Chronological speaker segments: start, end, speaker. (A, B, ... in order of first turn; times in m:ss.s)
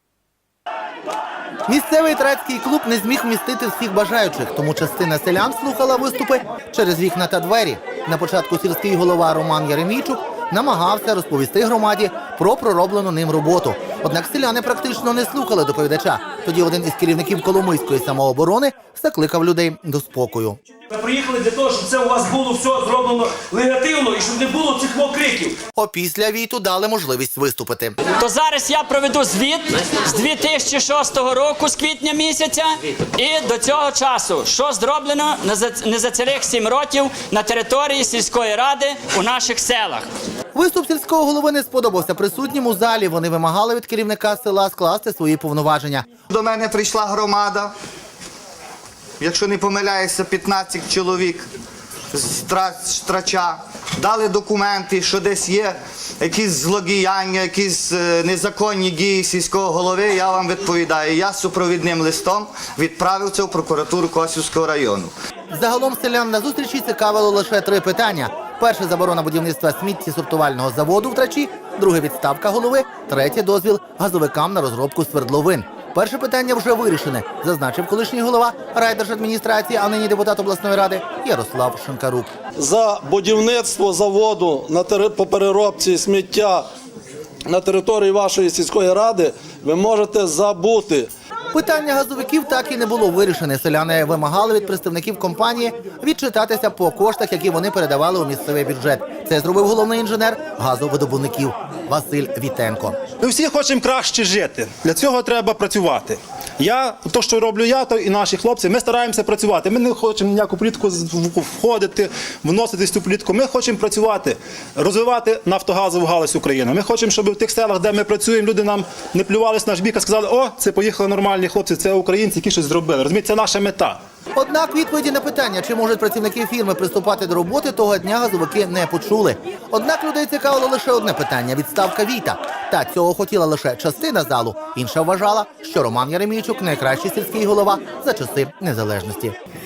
0:01.7-0:20.6 A
0:20.9-0:25.6 B
0:25.8-0:28.0 A
0:28.2-0:40.1 C
0:40.5-0:46.1 A
0:46.3-0:47.7 D
0:49.2-0:51.5 D
0:52.1-1:05.1 D
1:05.5-1:22.3 A
1:22.6-1:26.7 E
1:27.5-1:31.1 E
1:31.5-1:43.0 A
1:43.2-2:04.0 F
2:04.4-2:19.4 A